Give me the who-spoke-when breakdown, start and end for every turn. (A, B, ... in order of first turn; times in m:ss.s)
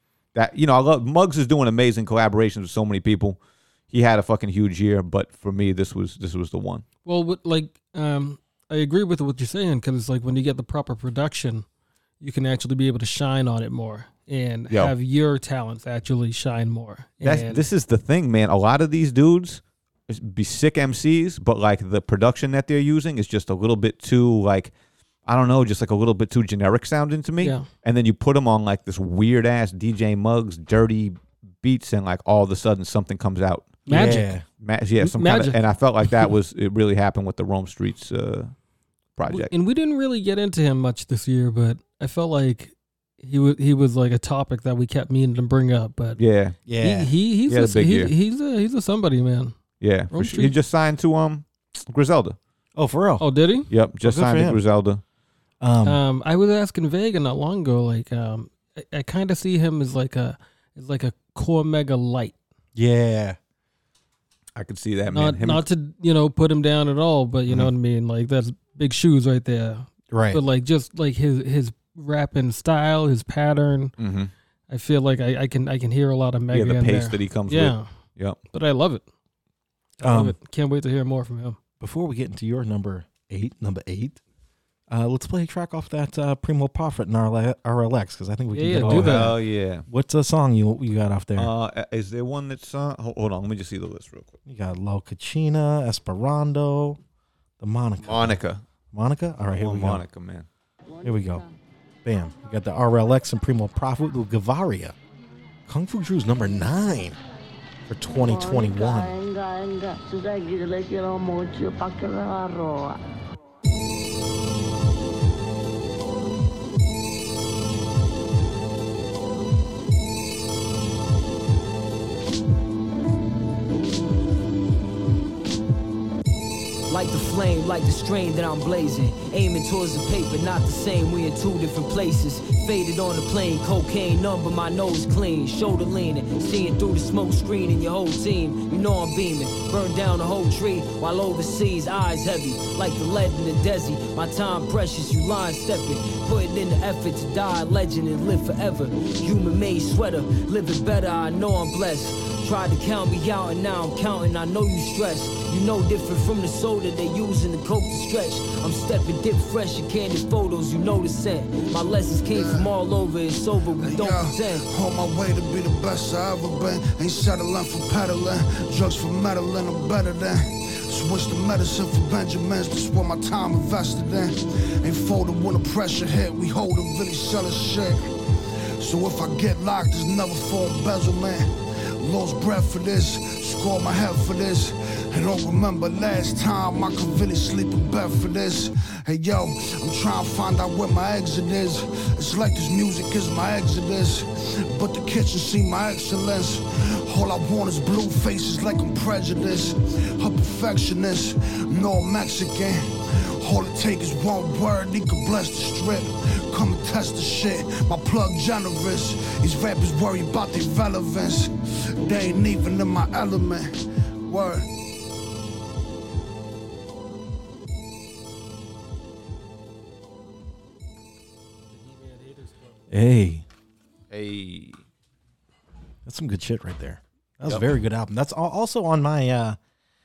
0:00.3-0:03.4 A
0:03.9-0:06.8 A
0:07.0-0:11.6 B
0:12.2-0:17.6 B
0:17.2-0:24.7 A
0:25.2-0:33.9 A
0:27.4-0:27.7 B
0:33.9-0:34.3 B
0:33.9-0:34.4 C
0:34.6-0:38.5 A
0:35.0-0:35.6 B
0:39.2-0:39.5 A
0:39.3-0:46.2 B
0:46.2-0:46.6 A
0:46.6-0:47.1 C
0:46.8-0:49.6 B
0:47.5-0:48.1 A
0:49.8-0:52.4 A
0:50.1-0:50.5 B
0:52.7-0:53.2 C
0:53.2-0:53.7 B
0:53.7-0:55.0 A
0:54.0-0:54.6 C
0:55.6-0:56.0 C
0:55.8-1:02.3 B
1:02.7-1:03.4 C
1:04.6-1:05.6 A
1:05.1-1:13.9 B
1:10.1-1:10.4 C
1:14.0-1:14.3 A
1:14.7-1:17.9 B
1:16.5-1:18.4 A
1:18.5-1:19.0 B
1:20.0-1:21.6 B
1:20.0-1:20.3 C
1:21.8-1:24.2 C
1:24.9-1:31.5 C
1:28.5-1:29.3 B
1:28.8-1:29.8 A
1:31.4-1:34.4 A
1:34.5-1:37.0 C
1:37.6-1:38.4 C
1:38.0-1:38.6 A
1:38.9-1:40.0 C
1:39.5-1:40.4 A
1:40.9-1:41.5 D
1:41.0-1:41.4 C
1:42.0-1:44.9 C
1:45.7-1:47.2 C
1:47.9-1:49.1 C
1:48.1-1:52.9 D
2:06.9-2:44.6 E
2:42.3-2:42.7 F
2:43.6-2:58.1 F
2:58.8-3:33.7 F
3:34.2-3:34.6 F
3:41.7-3:42.8 B
3:42.9-3:43.4 C
3:44.1-3:44.8 A
3:46.0-3:49.6 C